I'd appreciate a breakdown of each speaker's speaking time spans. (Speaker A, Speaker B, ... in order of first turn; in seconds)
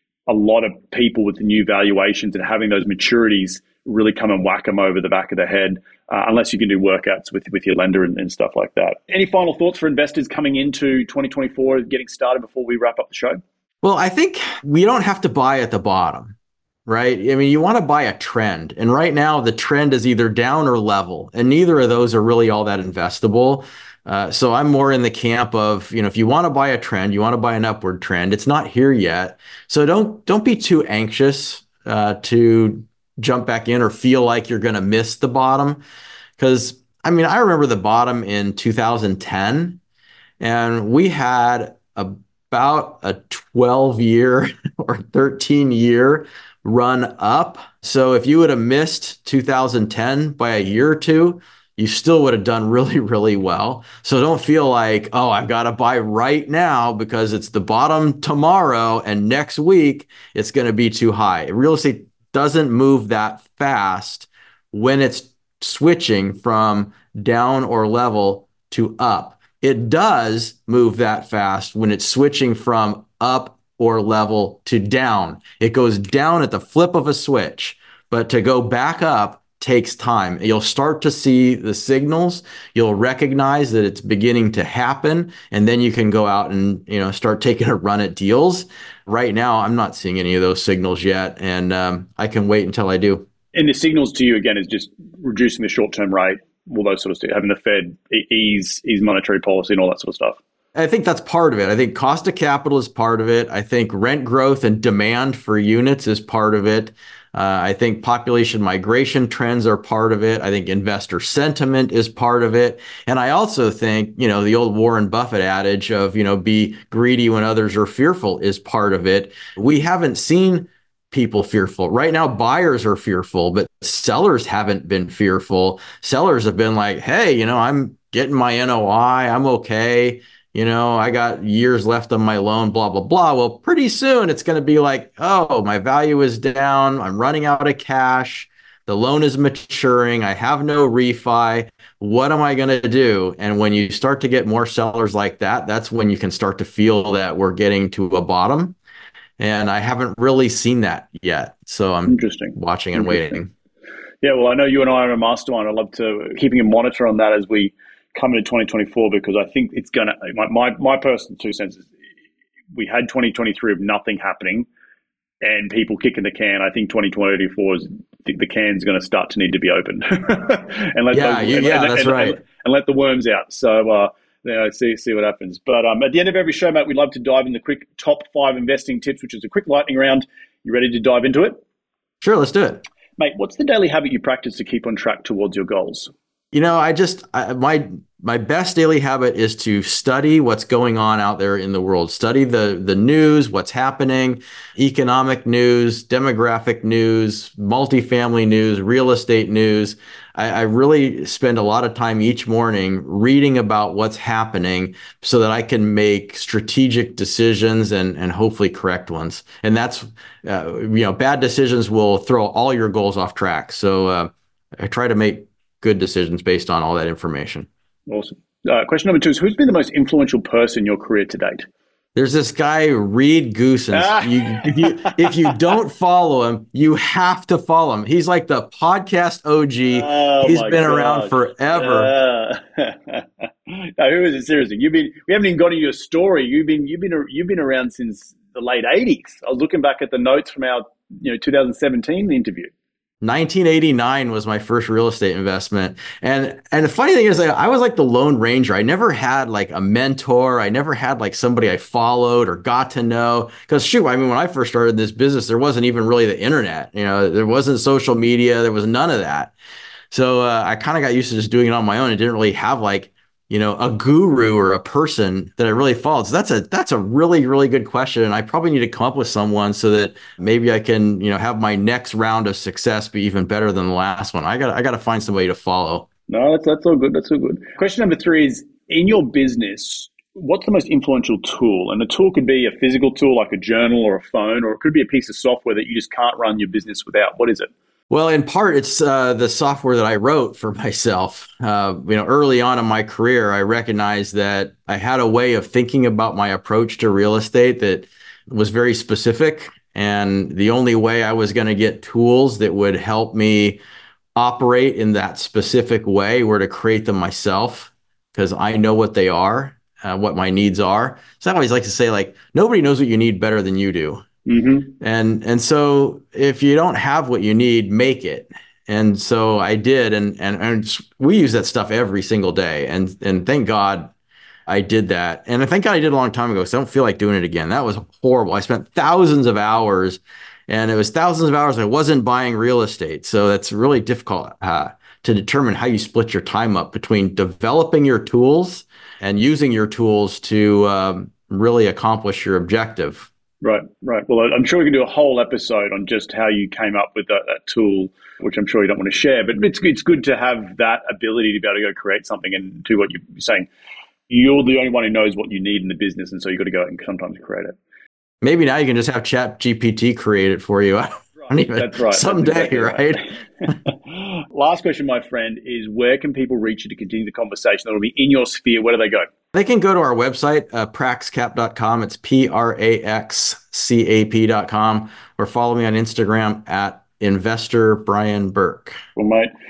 Speaker A: 0.3-13.4, 93.5-100.4, 152.1-153.3, 154.2-161.9, 162.7-164.7, 165.4-181.6, 183.2-186.1, 218.1-221.7, 223.9-225.3, 229.8-242.7, 276.3-287.7, 314.4-314.9, 343.6-353.7, 354.3-357.8, 361.4-369.3, 379.1-379.5
Speaker B: 13.8-16.3, 16.9-35.8, 36.4-39.8, 40.4-93.3, 100.7-148.8, 149.4-153.5, 171.1-172.4, 182.2-182.8, 186.5-217.7, 222.1-232.1, 243.2-259.5, 260.1-276.1, 288.1-303.8, 304.4-314.2, 315.0-324.1, 324.7-343.3, 358.4-363.8, 369.5-379.0